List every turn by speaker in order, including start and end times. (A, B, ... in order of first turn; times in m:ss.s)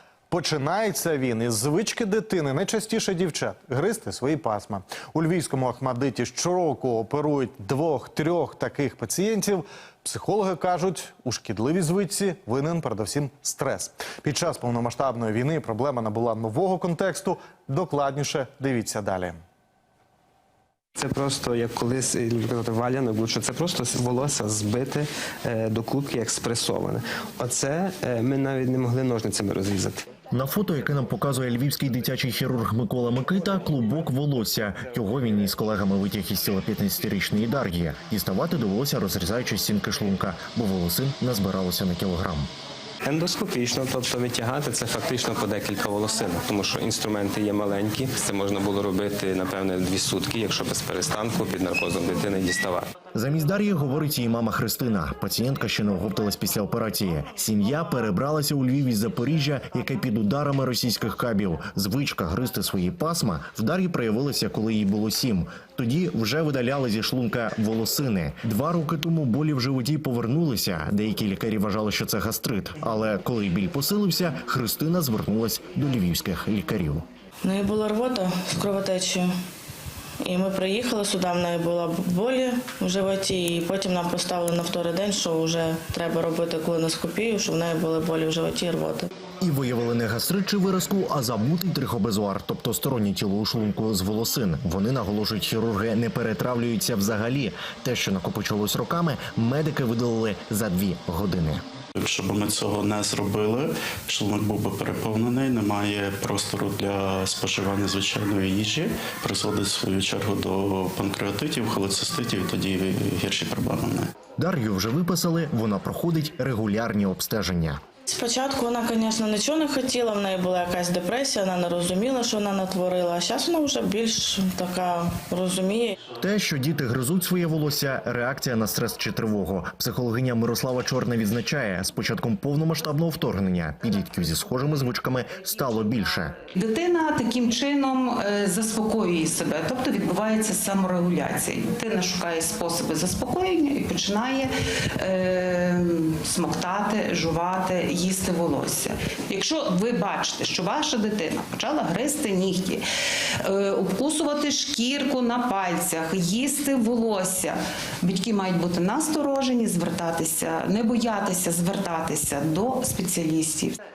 0:00.3-0:19.4 A
0:21.0-0:30.0 B
0:30.3-0:42.5 C
0:43.0-0:52.9 B
0:53.1-1:17.0 C
1:17.4-1:19.3 D
1:20.2-1:29.1 D
1:29.4-1:41.6 C
1:42.0-1:54.1 E
1:54.4-1:57.8 C
1:58.1-2:06.0 D
2:06.2-2:16.4 C
2:16.5-2:32.8 F
2:33.4-2:43.8 F